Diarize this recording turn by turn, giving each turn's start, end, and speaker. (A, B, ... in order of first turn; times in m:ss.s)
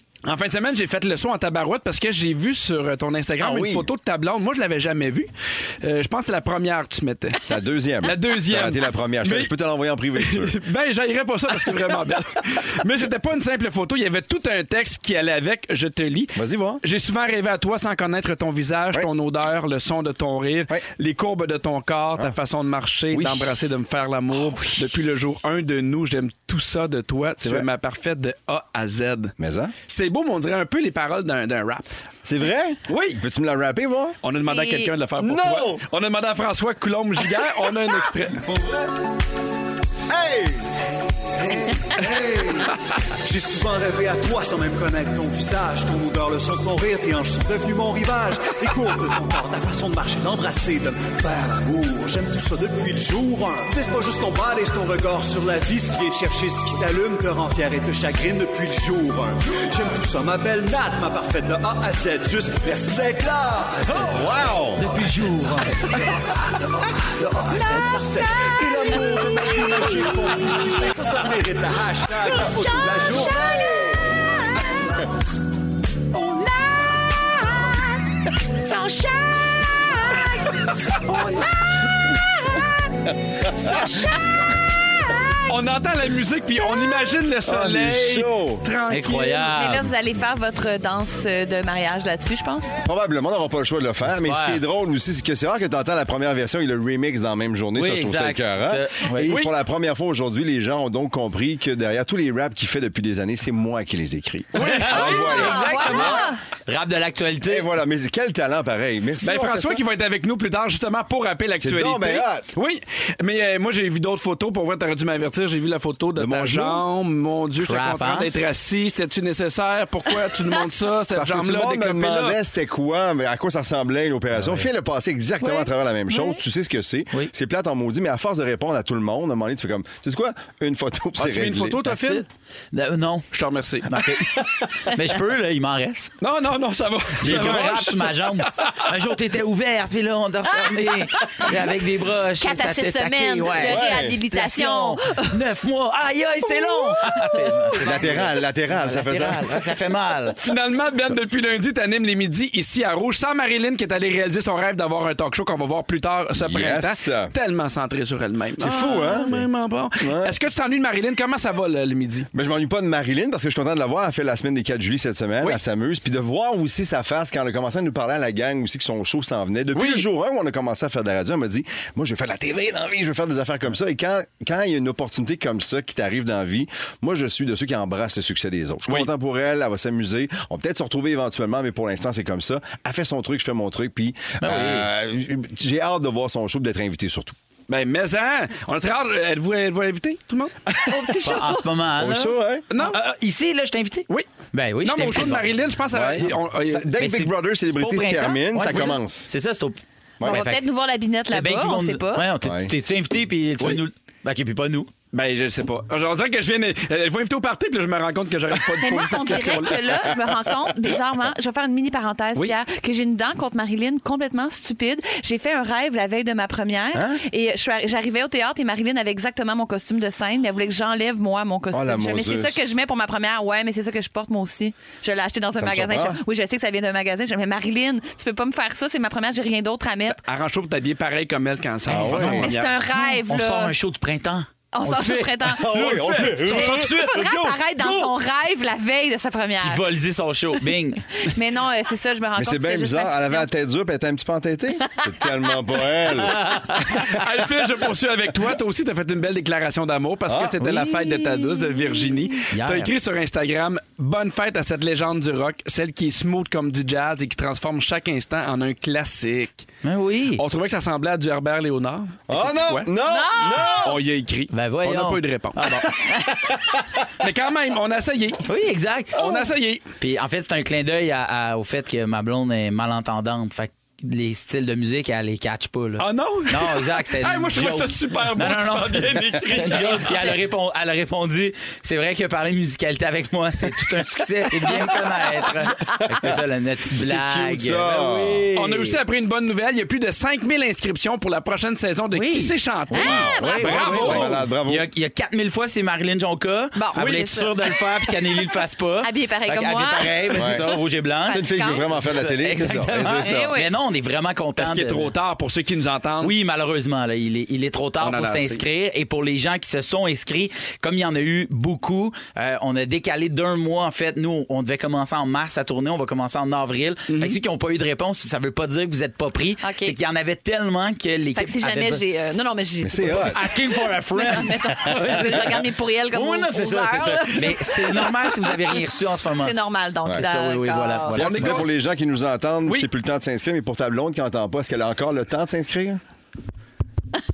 0:00.2-0:05.3 A
0:03.4-0:03.9 B
0:05.8-0:07.4 A
0:07.4-0:10.5 B
0:08.0-0:09.5 A
0:10.1-0:29.3 A
0:16.4-0:16.8 B
0:23.1-0:23.5 B
0:29.4-0:29.7 B
0:29.9-0:31.9 A
0:32.2-0:34.2 B
0:32.9-0:33.2 A
0:34.2-0:38.4 A
0:34.4-0:34.9 C
0:35.2-0:35.8 B
0:38.4-0:38.9 B
0:40.1-0:40.7 B
0:41.4-1:04.3 D
0:41.5-0:42.0 B
1:04.1-1:05.1 B
1:04.8-1:05.9 E
1:04.8-1:13.7 D
1:12.7-1:14.0 E
1:13.5-1:13.8 C
1:16.1-1:17.0 E
1:18.6-1:20.3 E
1:18.7-1:19.2 C
1:19.9-1:21.4 C
1:21.1-1:21.4 E
1:22.1-1:22.7 E
1:23.6-1:23.9 E
1:23.7-1:24.1 C
1:25.4-1:29.4 A
1:27.4-1:28.6 B
1:28.9-1:29.9 E
1:29.1-1:32.8 C
1:32.8-1:46.2 B
1:34.0-1:34.6 E
1:37.8-1:39.3 E
1:39.2-1:39.5 A
1:44.5-1:46.2 A
1:44.6-1:47.7 E
1:44.9-1:46.4 C
1:47.4-1:49.8 B
1:49.2-2:02.4 A
1:51.6-1:52.5 B
1:56.2-1:56.8 B
1:57.6-1:58.3 E
2:01.1-2:11.8 B
2:04.3-2:04.7 E
2:11.2-2:12.2 A
2:11.8-2:13.3 E
2:13.3-2:14.1 A
2:13.8-2:16.1 E
2:16.2-2:18.9 A
2:17.2-2:17.8 B
2:17.2-2:30.4 E
2:20.6-2:21.5 C
2:22.4-2:25.4 C
2:23.6-2:24.2 B
2:26.5-2:27.9 C
2:27.8-2:29.6 B
2:30.4-2:42.3 A
2:36.4-2:37.3 B
2:38.6-2:39.3 B
2:38.8-2:39.2 C
2:40.0-2:40.3 B
2:42.3-3:07.4 B
2:49.7-2:50.1 A
3:04.4-3:04.9 E
3:07.7-3:10.6 A
3:10.9-3:11.7 C
3:11.2-3:15.5 E
3:12.0-3:13.0 B
3:12.7-3:13.2 A
3:14.8-3:16.9 A
3:15.9-3:19.3 B
3:16.9-3:20.6 E
3:20.2-3:20.4 B
3:20.2-3:22.3 C
3:21.3-3:24.9 E
3:22.4-3:22.8 B
3:25.1-3:30.0 A
3:28.8-3:50.2 C
3:36.9-3:37.2 B
3:41.7-3:42.8 B
3:45.6-3:46.2 B
3:50.2-3:52.7 A
3:51.9-3:52.5 B
3:51.9-3:55.9 E
3:52.1-3:53.8 C
3:54.7-3:59.8 C
3:55.5-3:57.6 B
3:55.7-3:56.9 A
3:56.5-3:57.3 E
3:59.6-4:01.0 E
4:01.2-4:03.5 C
4:02.4-4:07.1 B
4:05.1-4:05.6 C
4:06.1-4:06.9 E
4:07.0-4:19.7 A
4:10.3-4:10.6 B
4:10.6-4:12.9 E
4:19.8-4:20.4 E
4:20.4-4:22.9 A
4:22.3-4:23.9 B
4:23.0-4:24.0 C
4:23.8-4:25.7 A
4:24.5-4:26.6 E
4:27.2-4:28.4 A
4:28.4-4:49.0 E
4:29.1-4:29.8 A
4:36.0-4:40.3 A
4:47.0-4:48.5 B
4:48.6-4:54.4 A
4:52.1-5:05.1 E
4:52.9-4:54.2 C
4:53.8-4:54.9 B
4:56.7-4:57.8 C
4:56.9-4:57.2 A
4:59.0-5:00.6 C
5:00.3-5:00.7 B
5:01.2-5:01.9 C
5:01.3-5:03.5 B
5:03.1-5:03.7 C
5:04.6-5:06.3 A
5:06.2-5:22.0 E
5:08.0-5:08.6 A
5:17.1-5:17.4 A
5:19.6-5:20.0 C
5:21.3-5:31.6 C
5:22.8-5:23.4 B
5:23.1-5:29.6 E
5:30.2-5:31.7 E
5:31.1-5:36.0 B
5:31.2-5:31.7 A